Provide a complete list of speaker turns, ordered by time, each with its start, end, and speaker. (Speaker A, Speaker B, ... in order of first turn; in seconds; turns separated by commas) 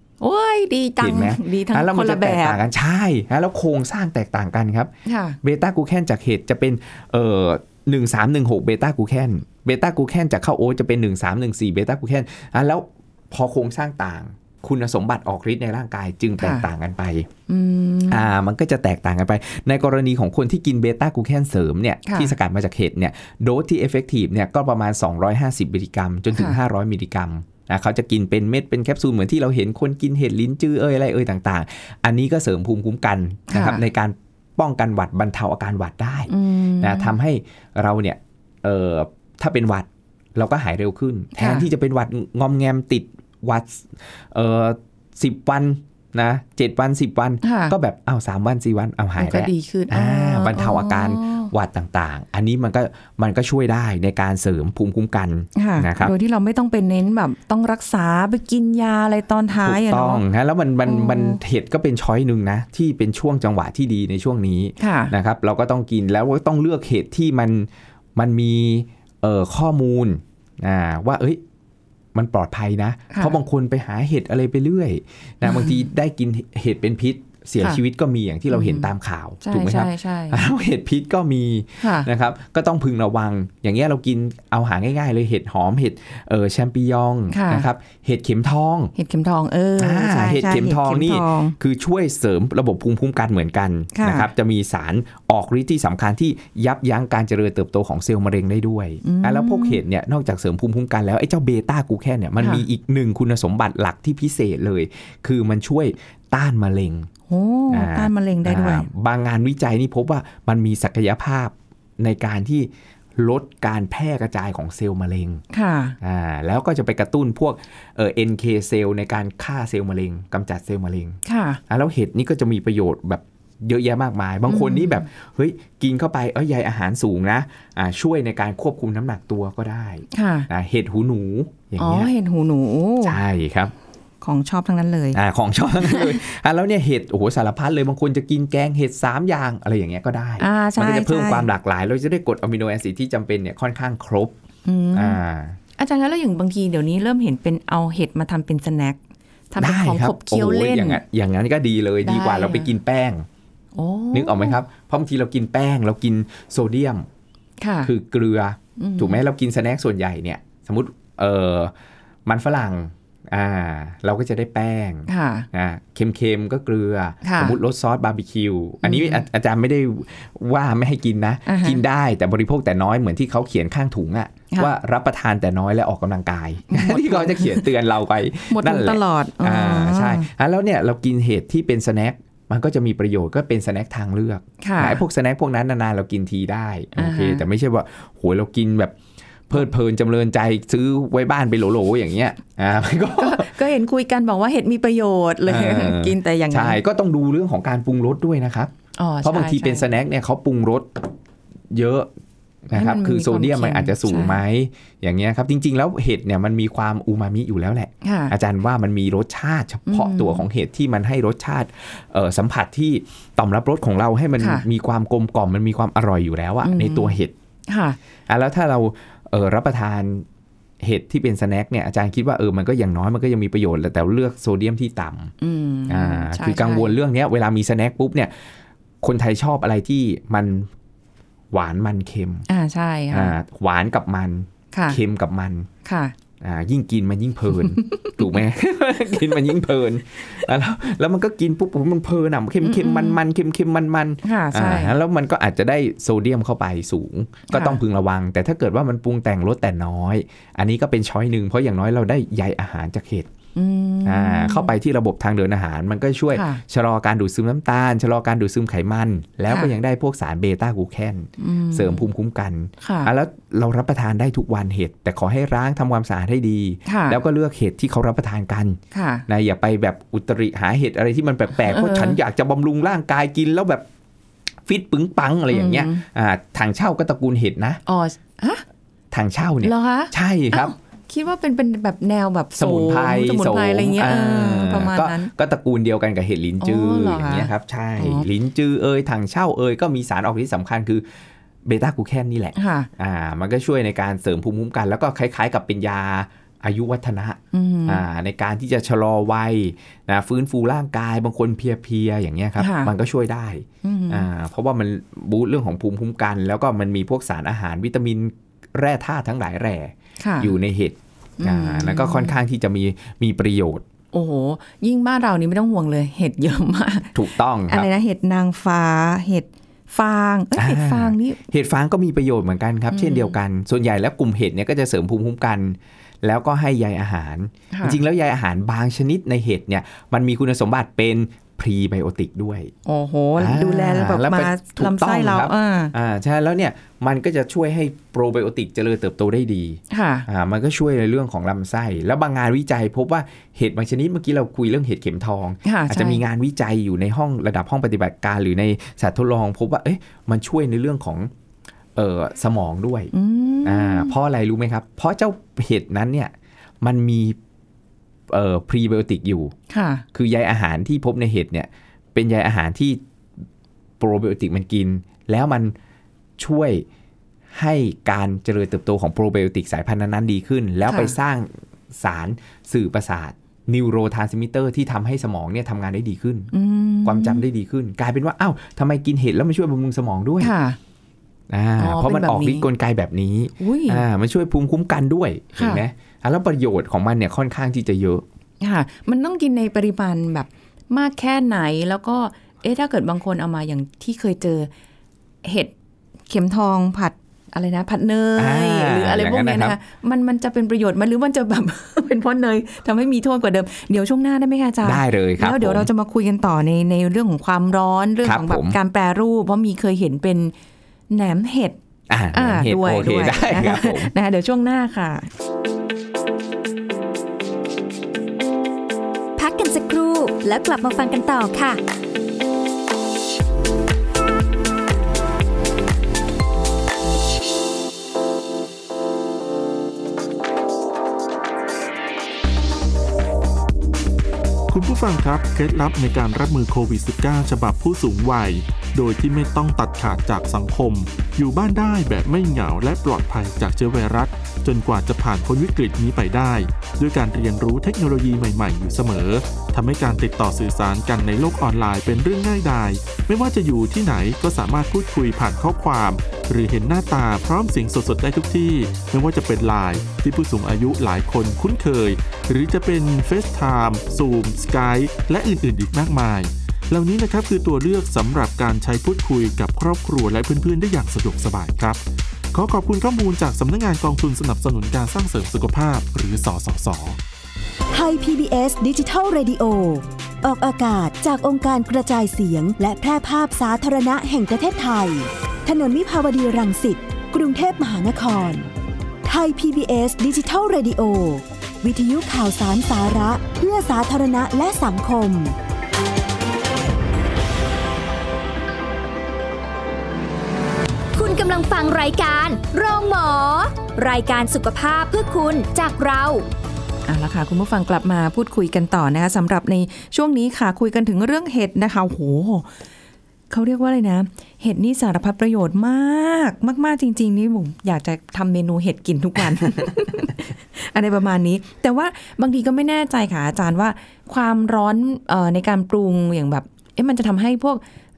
Speaker A: 0.2-2.6, Speaker B: 1.0-4.9, Speaker A: 5.1-5.4, Speaker B: 5.4-17.3, Speaker A: 16.4-16.7, Speaker A: 17.5-18.3, Speaker B: 18.1-56.1, Speaker A: 22.1-22.3, Speaker A: 33.5-33.8, Speaker A: 36.3-37.1, Speaker A: 41.4-41.7, Speaker A: 47.4-47.8, Speaker A: 49.2-51.5, Speaker A: 55.6-60.2, Speaker B: 59.5-71.4, Speaker A: 60.9-61.4, Speaker A: 64.8-65.1, Speaker B: 72.1-88.9, Speaker A: 73.1-73.4, Speaker A: 75.5-75.7, Speaker A: 78.5-78.9, Speaker A: 79.4-80.5, Speaker A: 81.8-82.1, Speaker A: 87.3-87.7, Speaker A: 89.0-91.6, Speaker B: 89.8-107.1, Speaker A: 93.9-94.3, Speaker A: 99.0-99.8, Speaker A: 102.4-102.7, Speaker A: 107.3-108.9, Speaker B: 107.7-115.4, Speaker A: 115.5-116.0, Speaker B: 116.0-132.1, Speaker A: 121.2-121.6, Speaker A: 124.5-125.1, Speaker A: 130.1-130.5, Speaker A: 131.8-133.2, Speaker B: 133.0-133.7, Speaker A: 134.2-135.2, Speaker B: 135.1-144.3, Speaker A: 135.8-136.2, Speaker A: 140.4-141.5, Speaker A: 144.7-145.2, Speaker B: 144.9-145.6, Speaker A: 145.8-149.0, Speaker A: 149.5-151.0, Speaker B: 149.6-153.3, Speaker A: 152.0-152.7, Speaker A: 153.8-154.6, Speaker B: 154.1-157.1, Speaker A: 157.6-157.9, Speaker B: 157.8-161.7, Speaker A: 158.8-159.2, Speaker B: 162.3-189.0, Speaker A: 165.1-165.5, Speaker A: 167.2-167.6, Speaker A: 168.8-169.2, Speaker A: 171.5-171.8, Speaker A: 176.7-177.7, Speaker A: 178.5-180.3, Speaker A: 184.6-185.0, Speaker A: 187.0-187.4, Speaker B: 189.5-193.5, Speaker A: 193.2-196.8, Speaker B: 195.5-201.1, Speaker A: 199.0-199.9, Speaker B: 201.7-202.1, Speaker B: 202.7-217.3, Speaker A: 202.7-204.4, Speaker A: 208.0-208.3, Speaker A: 209.9-210.5, Speaker A: 214.4-214.7, Speaker A: 216.6-217.2, Speaker A: 217.7-218.0, Speaker B: 218.3-220.3, Speaker B: 220.8-225.3, Speaker A: 225.4-226.9, Speaker B: 225.9-228.3, Speaker B: 229.0-230.7, Speaker B: 231.5-232.5, Speaker A: 232.5-233.4, Speaker B: 233.1-235.7, Speaker A: 234.7-235.0, Speaker A: 235.8-236.1, Speaker B: 236.4-253.3, Speaker A: 237.6-238.3, Speaker A: 242.6-243.2, Speaker A: 244.2-245.0, Speaker A: 247.5-247.8, Speaker A: 253.6-254.7, Speaker B: 254.1-273.9, Speaker A: 256.3-256.6, Speaker A: 261.4-262.1, Speaker A: 262.8-263.1, Speaker A: 266.9-267.2, Speaker A: 268.9-269.3, Speaker A: 271.6-272.2, Speaker B: 274.7-277.8, Speaker A: 275.5-276.1, Speaker A: 277.9-278.6, Speaker B: 279.1-280.7, Speaker A: 279.6-285.3, Speaker B: 282.6-291.1, Speaker A: 286.6-288.3, Speaker B: 291.6-313.8, Speaker A: 292.6-292.9, Speaker A: 297.5-298.1, Speaker A: 302.6-302.9, Speaker A: 303.8-304.3, Speaker A: 310.2-310.5, Speaker A: 311.4-312.3, Speaker A: 314.1-317.2, Speaker B: 317.1-317.9, Speaker A: 317.7-321.4, Speaker B: 320.6-332.7, Speaker A: 322.9-323.4, Speaker A: 327.7-328.0, Speaker A: 332.9-335.9, Speaker B: 333.4-351.3, Speaker A: 339.9-340.3, Speaker A: 345.6-346.2, Speaker B: 352.0-353.1, Speaker A: 353.1-354.1, Speaker B: 353.6-357.4, Speaker B: 358.3-359.6, Speaker A: 359.7-360.0, Speaker B: 360.1-363.0, Speaker B: 364.0-365.8, Speaker B: 366.4-366.9, Speaker B: 367.5-376.5, Speaker A: 370.9-371.1, Speaker A: 376.5-377.4, Speaker B: 377.1-380.5, Speaker A: 380.4-380.8, Speaker B: 381.5-388.2, Speaker A: 381.8-382.7, Speaker A: 383.6-384.1, Speaker A: 385.6-385.8, Speaker A: 388.6-394.7, Speaker A: 395.4-395.7, Speaker A: 396.3-410.5, Speaker B: 398.4-399.8, Speaker B: 404.8-405.9, Speaker B: 408.2-408.8, Speaker A: 411.1-411.8, Speaker B: 412.1-414.1, Speaker A: 412.3-415.3, Speaker C: 419.4-421.8, Speaker D: 434.7-472.0, Speaker D: 472.5-477.2, Speaker E: 477.9-488.7, Speaker E: 489.2-495.6, Speaker C: 501.1-506.5, Speaker A: 507.1-512.7, Speaker A: 513.5-527.8